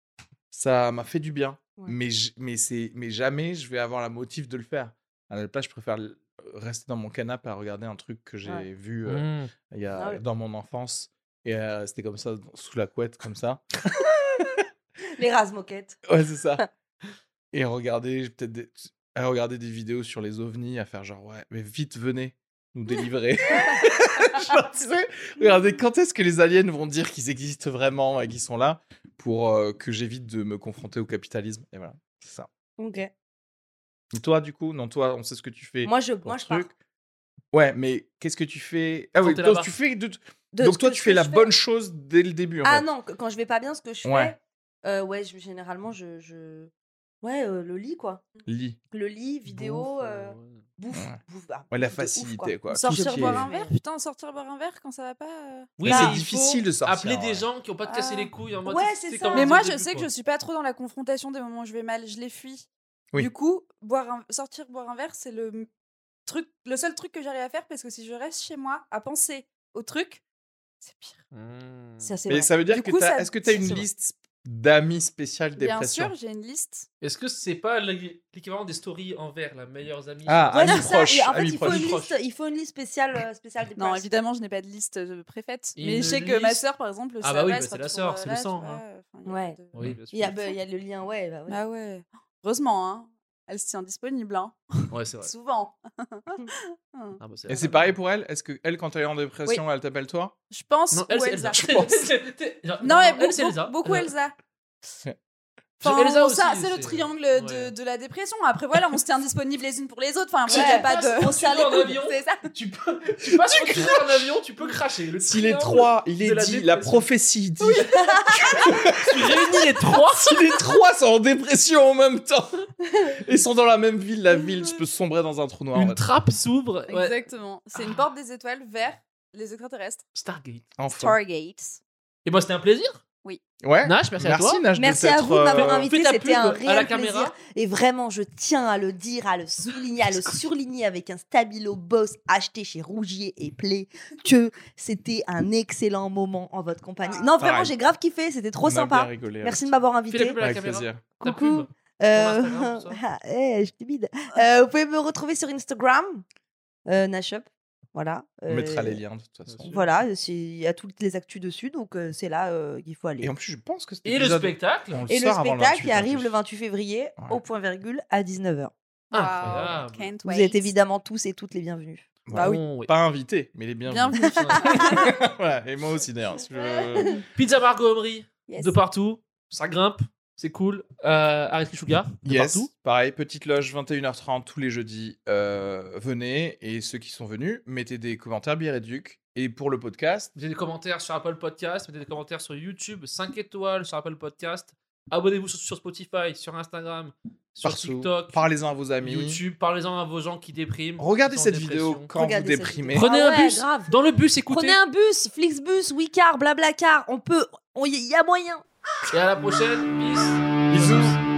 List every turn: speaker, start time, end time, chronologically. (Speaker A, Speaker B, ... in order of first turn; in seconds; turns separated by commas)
Speaker A: 0.5-14.6, Speaker B: 9.1-9.5, Speaker C: 15.2-16.0, Speaker A: 16.1-16.6, Speaker A: 17.5-32.5, Speaker C: 32.8-33.1, Speaker A: 34.1-36.7, Speaker C: 35.8-36.7, Speaker A: 37.5-42.9, Speaker B: 39.2-39.7, Speaker C: 40.5-41.5, Speaker C: 42.6-46.7, Speaker A: 44.0-44.3, Speaker C: 47.2-48.3, Speaker A: 48.4-48.8, Speaker C: 48.9-53.7, Speaker B: 49.5-50.6, Speaker A: 50.9-51.2, Speaker A: 51.7-53.5, Speaker D: 52.7-56.1, Speaker B: 55.8-60.1, Speaker A: 55.8-57.4, Speaker C: 57.8-59.5, Speaker D: 59.3-65.7, Speaker D: 66.2-70.2, Speaker D: 70.8-71.2, Speaker B: 71.3-72.1, Speaker C: 72.0-72.5, Speaker A: 72.3-76.1, Speaker D: 72.7-73.9, Speaker D: 75.5-76.9, Speaker B: 77.0-81.0, Speaker A: 80.2-82.0, Speaker C: 80.5-84.1, Speaker B: 81.6-82.2, Speaker D: 83.8-90.5, Speaker B: 85.8-86.6, Speaker B: 87.2-88.8, Speaker C: 89.2-89.6, Speaker B: 89.7-90.3, Speaker C: 90.1-91.6, Speaker D: 91.5-97.2, Speaker B: 94.9-95.3, Speaker B: 97.2-97.9, Speaker A: 97.5-100.3, Speaker D: 100.5-101.6, Speaker B: 100.9-104.1, Speaker A: 101.5-102.0, Speaker D: 102.8-104.3, Speaker B: 105.8-107.7, Speaker D: 105.8-111.4, Speaker B: 110.5-117.1, Speaker C: 110.5-112.2, Speaker D: 112.1-112.3, Speaker A: 113.2-114.3, Speaker A: 115.2-126.0, Speaker B: 117.7-120.6, Speaker C: 117.9-118.5, Speaker C: 122.9-123.1, Speaker B: 125.7-128.1, Speaker D: 126.9-130.0, Speaker B: 130.1-130.7, Speaker A: 130.8-131.2, Speaker D: 130.9-131.8, Speaker B: 132.2-133.0, Speaker A: 133.6-135.9, Speaker B: 133.8-134.6, Speaker C: 134.7-150.4, Speaker B: 135.5-137.4, Speaker A: 147.4-147.7, Speaker A: 148.6-149.7, Speaker B: 150.1-153.0, Speaker A: 150.4-151.0, Speaker C: 151.2-156.2, Speaker C: 156.9-159.0, Speaker A: 158.5-159.8, Speaker B: 159.5-159.9, Speaker C: 159.7-163.3, Speaker A: 163.2-166.4, Speaker B: 164.0-165.0, Speaker C: 165.1-168.7, Speaker B: 169.1-170.1, Speaker D: 169.1-170.7, Speaker A: 169.4-169.8, Speaker C: 170.2-172.1, Speaker A: 172.3-177.2, Speaker D: 172.3-172.6, Speaker B: 172.3-172.9, Speaker D: 173.9-175.1, Speaker C: 174.6-175.1, Speaker C: 176.5-177.2, Speaker B: 177.3-182.7, Speaker C: 178.5-178.7, Speaker A: 182.2-190.3, Speaker B: 190.3-198.4, Speaker A: 197.6-199.4, Speaker B: 199.0-202.1, Speaker A: 201.0-203.1, Speaker C: 202.1-203.9, Speaker B: 202.9-204.8, Speaker C: 204.5-208.6, Speaker B: 209.1-211.2, Speaker A: 210.7-211.2